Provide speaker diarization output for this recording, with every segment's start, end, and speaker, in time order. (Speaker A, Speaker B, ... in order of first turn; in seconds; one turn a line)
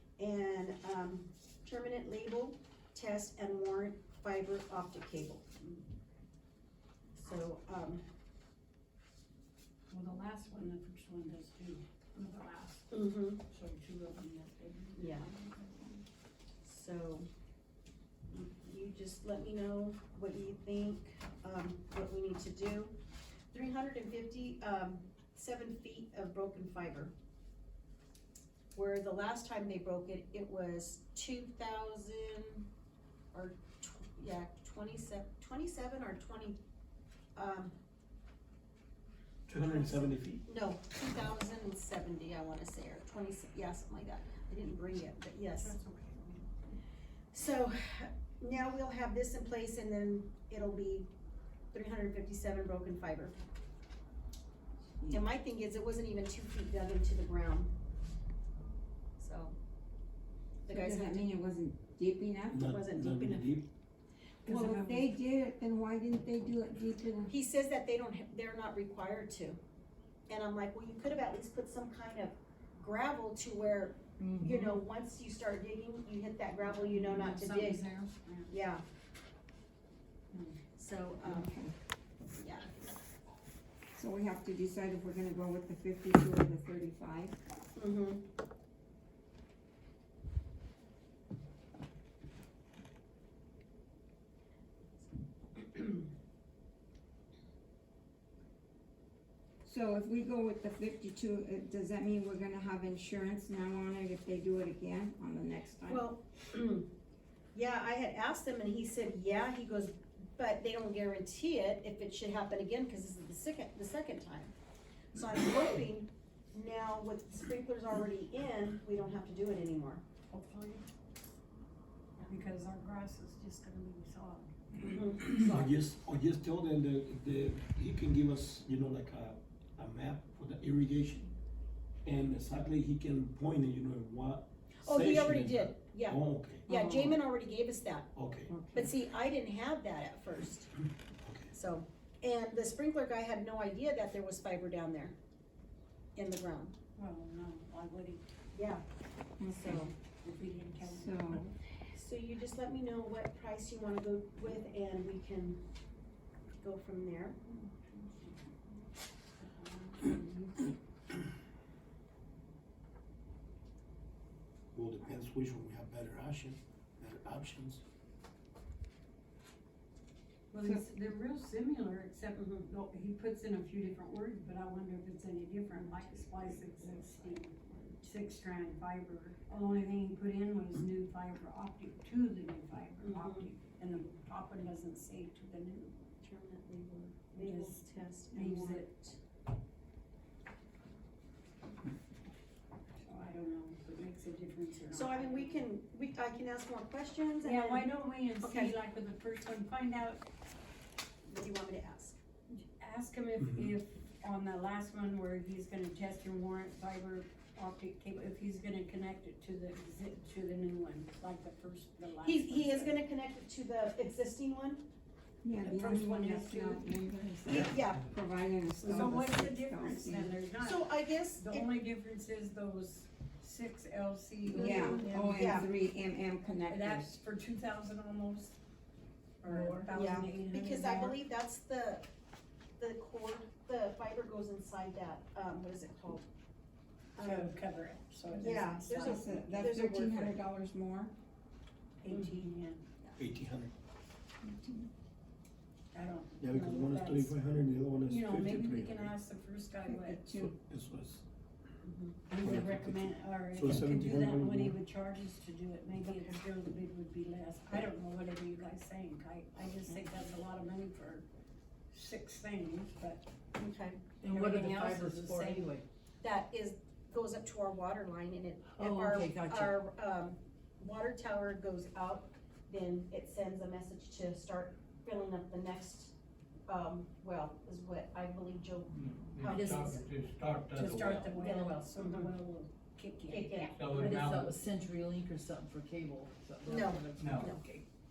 Speaker A: 0.2-5.5
Speaker A: 7.2-8.0
Speaker B: 9.9-12.9
Speaker A: 12.9-13.4
Speaker B: 13.5-16.0
Speaker A: 14.9-15.3
Speaker A: 16.6-17.3
Speaker A: 18.3-23.0
Speaker A: 23.5-27.1
Speaker A: 28.7-32.7
Speaker A: 33.3-36.6
Speaker A: 37.3-37.7
Speaker C: 39.5-40.4
Speaker A: 40.4-45.7
Speaker B: 45.6-46.5
Speaker A: 47.3-51.1
Speaker A: 51.7-53.3
Speaker A: 55.1-57.7
Speaker A: 59.2-59.5
Speaker A: 60.6-61.2
Speaker D: 60.7-62.7
Speaker C: 62.5-63.7
Speaker A: 62.6-63.6
Speaker B: 64.4-65.1
Speaker D: 64.4-67.3
Speaker A: 67.3-69.6
Speaker A: 70.3-77.9
Speaker E: 74.2-74.6
Speaker E: 76.9-78.1
Speaker A: 78.5-78.8
Speaker B: 80.3-80.6
Speaker A: 80.8-81.5
Speaker D: 81.2-81.7
Speaker A: 82.3-83.0
Speaker D: 83.9-87.3
Speaker A: 87.7-88.2
Speaker D: 99.6-106.1
Speaker A: 105.8-106.9
Speaker A: 107.5-114.5
Speaker A: 115.1-120.0
Speaker B: 120.3-120.8
Speaker B: 122.2-124.5
Speaker A: 124.8-125.7
Speaker C: 125.4-131.3
Speaker C: 132.0-136.6
Speaker A: 134.8-138.1
Speaker D: 136.7-137.2
Speaker C: 138.1-138.5
Speaker D: 138.5-138.9
Speaker A: 138.7-140.7
Speaker C: 141.2-141.5
Speaker A: 141.5-145.2
Speaker A: 146.2-146.7
Speaker B: 146.9-148.2
Speaker A: 148.5-148.8
Speaker D: 149.4-149.9
Speaker A: 149.5-149.9
Speaker B: 150.2-151.4
Speaker D: 150.8-151.5
Speaker A: 151.8-155.6
Speaker A: 156.6-157.4
Speaker B: 157.5-158.5
Speaker B: 159.4-160.7
Speaker C: 164.7-167.8
Speaker B: 170.5-185.9
Speaker A: 176.2-178.0
Speaker A: 183.0-183.5
Speaker A: 186.2-189.2
Speaker B: 187.4-188.9
Speaker B: 193.0-195.7
Speaker A: 194.9-198.7
Speaker B: 197.4-200.2
Speaker A: 201.2-202.2
Speaker B: 202.5-212.9
Speaker A: 212.2-214.9
Speaker D: 215.4-220.3
Speaker B: 215.6-216.9
Speaker A: 217.5-218.0
Speaker B: 218.8-225.7
Speaker A: 220.6-221.7
Speaker D: 224.5-227.2
Speaker A: 224.5-225.7
Speaker B: 226.5-228.5
Speaker B: 229.4-231.2
Speaker E: 229.4-229.9
Speaker A: 229.9-232.1
Speaker A: 232.8-236.3
Speaker A: 237.2-237.5
Speaker B: 237.2-239.6
Speaker A: 238.3-240.4
Speaker D: 238.3-241.1
Speaker B: 242.0-242.8
Speaker A: 242.1-242.4
Speaker C: 243.2-243.7
Speaker D: 244.4-244.9
Speaker B: 245.9-247.4
Speaker C: 246.4-249.1
Speaker B: 248.0-250.2
Speaker D: 249.9-250.5
Speaker C: 250.3-251.2
Speaker A: 251.8-252.2
Speaker B: 252.3-261.2
Speaker C: 252.4-254.8
Speaker A: 256.1-256.4
Speaker B: 261.9-263.2
Speaker A: 263.6-264.0
Speaker E: 264.2-265.8
Speaker B: 264.2-265.8
Speaker A: 266.2-276.1
Speaker E: 268.7-269.8
Speaker A: 276.7-280.1
Speaker F: 278.9-281.4
Speaker E: 279.4-279.9
Speaker B: 280.7-284.5
Speaker E: 280.8-281.8
Speaker A: 281.3-282.3
Speaker A: 283.3-284.1
Speaker F: 283.8-284.6
Speaker E: 284.0-287.8
Speaker A: 286.6-287.6
Speaker F: 287.2-287.5